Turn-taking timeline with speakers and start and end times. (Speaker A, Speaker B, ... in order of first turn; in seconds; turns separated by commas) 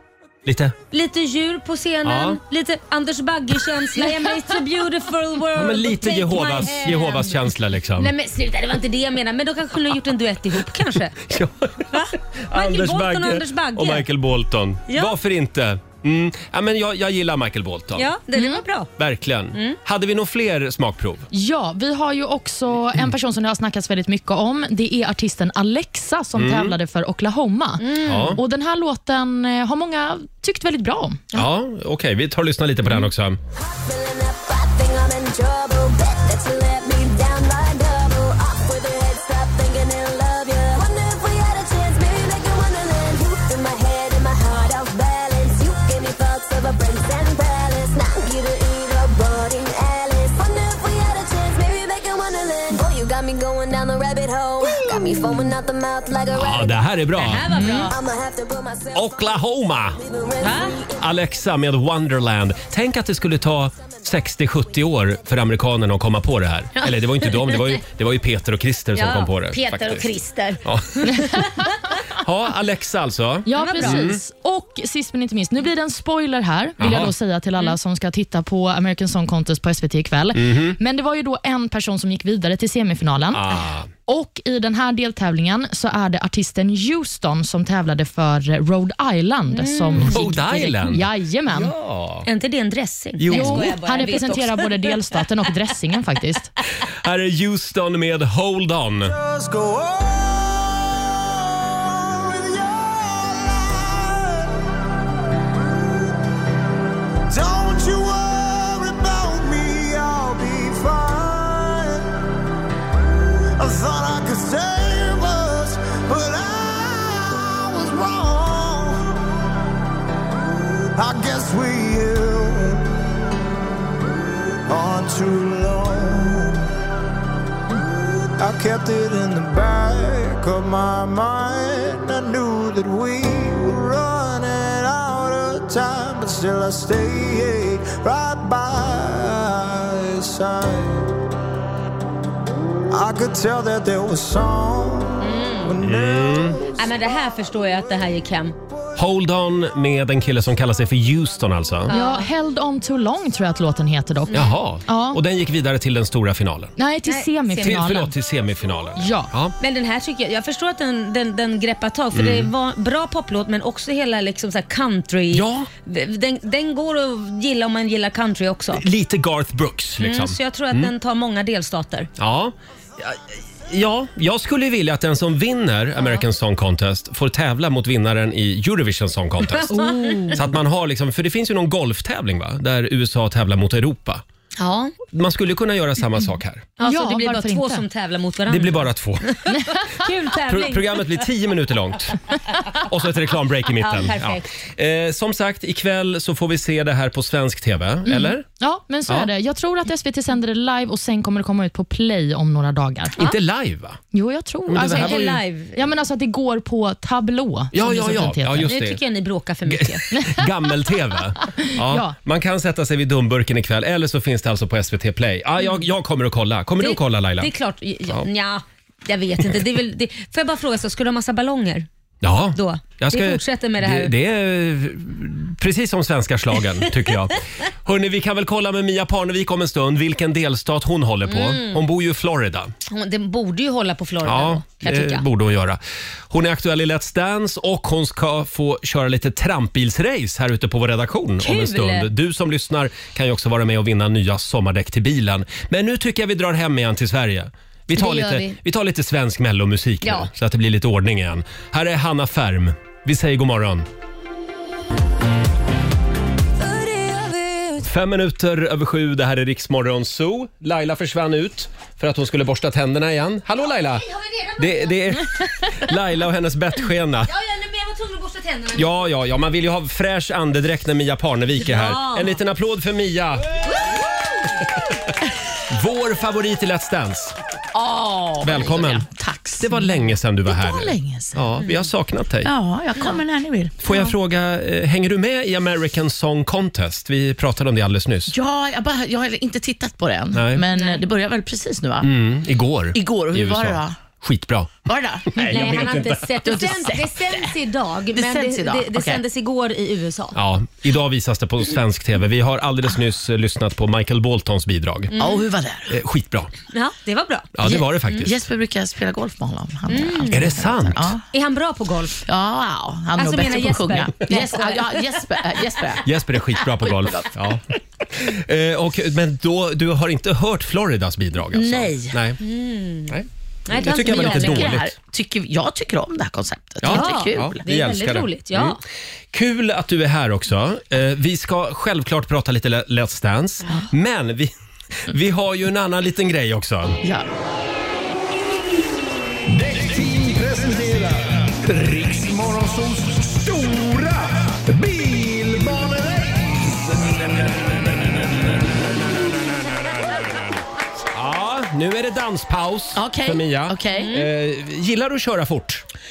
Speaker A: 0.5-0.8, Speaker B: 0.9-11.3, Speaker A: 2.0-2.4, Speaker A: 5.5-8.1, Speaker A: 11.3-18.1, Speaker B: 11.9-14.1, Speaker B: 14.9-15.1, Speaker B: 18.0-18.9, Speaker C: 18.4-18.6, Speaker A: 19.0-21.3, Speaker C: 21.3-31.2, Speaker A: 26.4-26.8, Speaker B: 27.8-28.4, Speaker A: 28.1-28.4, Speaker A: 31.3-33.4, Speaker D: 33.6-56.8, Speaker A: 56.3-57.4, Speaker B: 57.2-57.9, Speaker C: 57.5-57.9, Speaker D: 57.9-59.2, Speaker A: 58.9-60.0, Speaker D: 60.0-61.0, Speaker B: 60.4-60.8, Speaker A: 61.0-70.1, Speaker B: 66.8-67.8, Speaker B: 69.0-71.7, Speaker A: 70.6-71.1, Speaker A: 72.2-74.2, Speaker C: 73.5-83.4, Speaker B: 73.6-74.1, Speaker A: 76.8-77.1, Speaker A: 80.3-80.8, Speaker A: 83.3-83.9, Speaker C: 84.1-91.7, Speaker B: 89.5-90.2, Speaker A: 90.0-92.3, Speaker B: 92.3-95.0, Speaker A: 93.2-93.7, Speaker C: 93.3-96.5, Speaker A: 97.0-99.1, Speaker E: 99.1-104.6, Speaker E: 107.3-112.2, Speaker E: 113.6-119.1, Speaker E: 121.0-123.0, Speaker E: 124.7-126.7, Speaker E: 128.4-141.1, Speaker E: 142.9-147.6, Speaker B: 145.2-145.8, Speaker A: 145.8-146.6, Speaker B: 146.8-148.6, Speaker A: 149.0-151.9, Speaker B: 151.9-152.3, Speaker C: 151.9-155.2, Speaker A: 154.3-156.7, Speaker C: 156.8-158.1, Speaker B: 157.1-158.0, Speaker A: 157.6-159.6, Speaker C: 159.0-159.3, Speaker B: 159.6-168.8, Speaker A: 162.1-162.5, Speaker A: 165.3-165.7, Speaker A: 168.7-170.9, Speaker B: 170.0-172.1, Speaker A: 172.2-179.7, Speaker C: 179.7-180.4, Speaker B: 179.8-180.2, Speaker A: 180.3-184.2, Speaker B: 184.6-184.9, Speaker A: 185.1-186.7, Speaker B: 186.8-191.0, Speaker C: 186.8-187.8, Speaker A: 188.5-189.4, Speaker A: 190.5-192.2, Speaker A: 192.8-198.4, Speaker B: 193.8-194.5, Speaker C: 198.1-203.2, Speaker A: 203.2-204.0, Speaker C: 204.1-208.7, Speaker A: 204.7-205.4, Speaker B: 204.8-205.8, Speaker A: 207.7-209.0, Speaker B: 208.7-210.1, Speaker A: 209.7-217.5, Speaker C: 210.1-210.4, Speaker C: 211.6-212.2, Speaker B: 216.8-221.9, Speaker A: 222.2-232.7, Speaker B: 222.6-224.1, Speaker B: 231.3-231.8, Speaker B: 232.9-235.2, Speaker A: 234.2-253.9, Speaker B: 241.4-242.1, Speaker B: 247.9-248.6, Speaker B: 250.0-250.3, Speaker B: 256.8-257.8, Speaker A: 257.8-264.1, Speaker B: 263.8-265.1, Speaker A: 264.6-267.3, Speaker B: 267.3-269.0, Speaker A: 268.7-273.5, Speaker B: 271.6-272.4, Speaker A: 275.7-277.4, Speaker F: 277.7-281.5, Speaker A: 278.4-282.5, Speaker F: 282.4-284.1, Speaker A: 283.8-288.3, Speaker F: 288.3-292.1, Speaker A: 290.3-290.6, Speaker A: 292.0-296.6, Speaker F: 292.9-294.0, Speaker F: 294.9-297.6, Speaker B: 295.4-300.4, Speaker F: 298.1-299.2, Speaker A: 300.4-305.1, Speaker B: 305.1-305.4, Speaker F: 305.2-306.0, Speaker A: 305.9-306.5, Speaker B: 306.7-308.2, Speaker A: 307.6-308.3, Speaker F: 307.6-311.2, Speaker B: 309.9-310.5, Speaker A: 310.3-311.1, Speaker B: 311.3-312.2, Speaker F: 312.3-316.1, Speaker B: 313.2-315.2, Speaker A: 316.0-322.4, Speaker F: 316.8-317.3, Speaker F: 321.5-322.2, Speaker B: 322.4-323.2, Speaker A: 323.1-324.9, Speaker B: 323.7-324.8, Speaker F: 323.9-327.6, Speaker A: 326.8-328.8, Speaker B: 326.9-328.8, Speaker A: 329.3-334.5, Speaker A: 335.1-337.0, Speaker G: 339.5-347.8, Speaker A: 349.6-350.6, Speaker A: 351.1-355.9, Speaker F: 352.9-354.1, Speaker B: 354.0-354.3